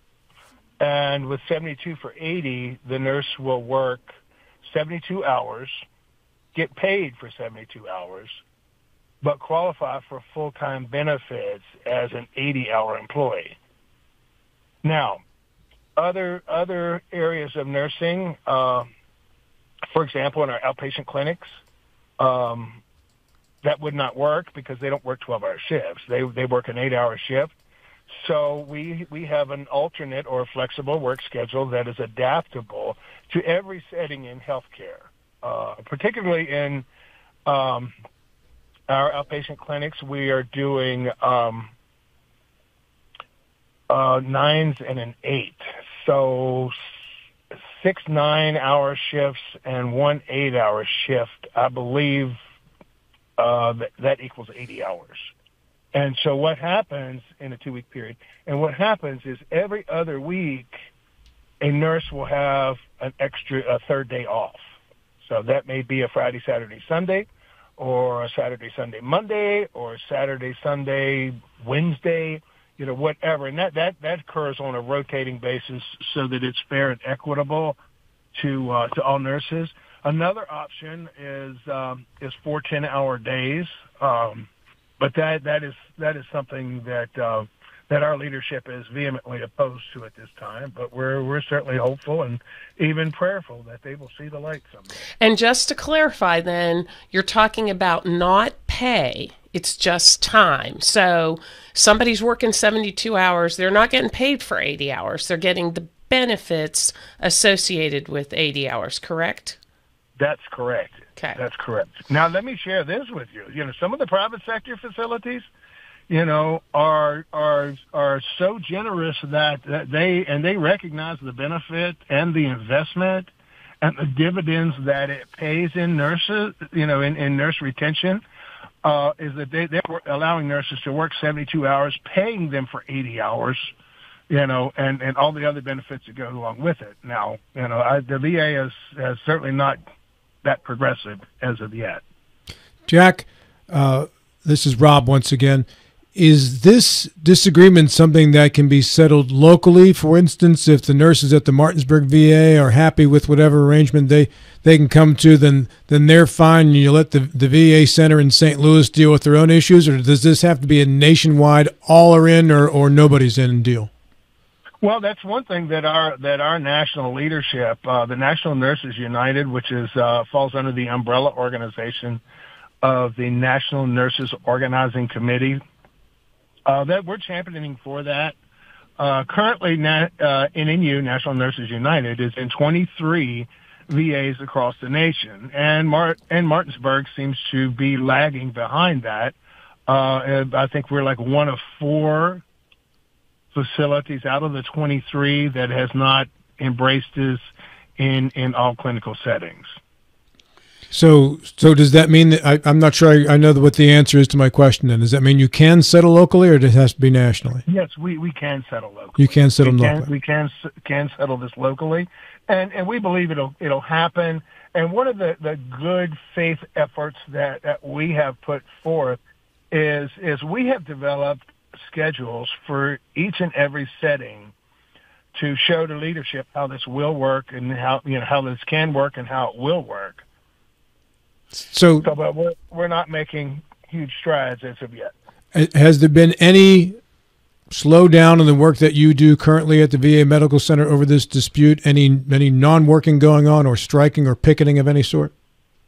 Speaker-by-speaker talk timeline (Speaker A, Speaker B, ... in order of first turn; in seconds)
Speaker A: 0.8-5.8, 6.5-8.4, 9.2-13.6, 14.8-15.2, 16.0-18.9, 19.9-21.6, 22.2-22.8, 23.6-27.5, 28.1-36.9, 37.5-37.9, 38.9-41.7, 43.9-46.8, 47.5-52.4, 53.4-55.3, 55.9-60.8, 61.6-64.6, 65.2-77.8, 78.3-84.5, 85.0-94.9, 110.2-115.5, 116.1-123.3, 123.8-128.2, 128.8-133.7, 134.3-139.8, 140.4-142.0, 164.8-172.2, 172.8-175.6, 176.7-178.4, 179.0-189.3, 189.9-192.4, 193.5-197.5, 198.0-199.7, 207.7-219.2, 219.7-224.5, 225.3-230.2, 232.0-235.1
Speaker B: 95.2-109.6
Speaker C: 142.9-163.9, 200.9-207.6, 209.2-210.1, 231.7-232.1, 235.5-237.0, 237.7-245.3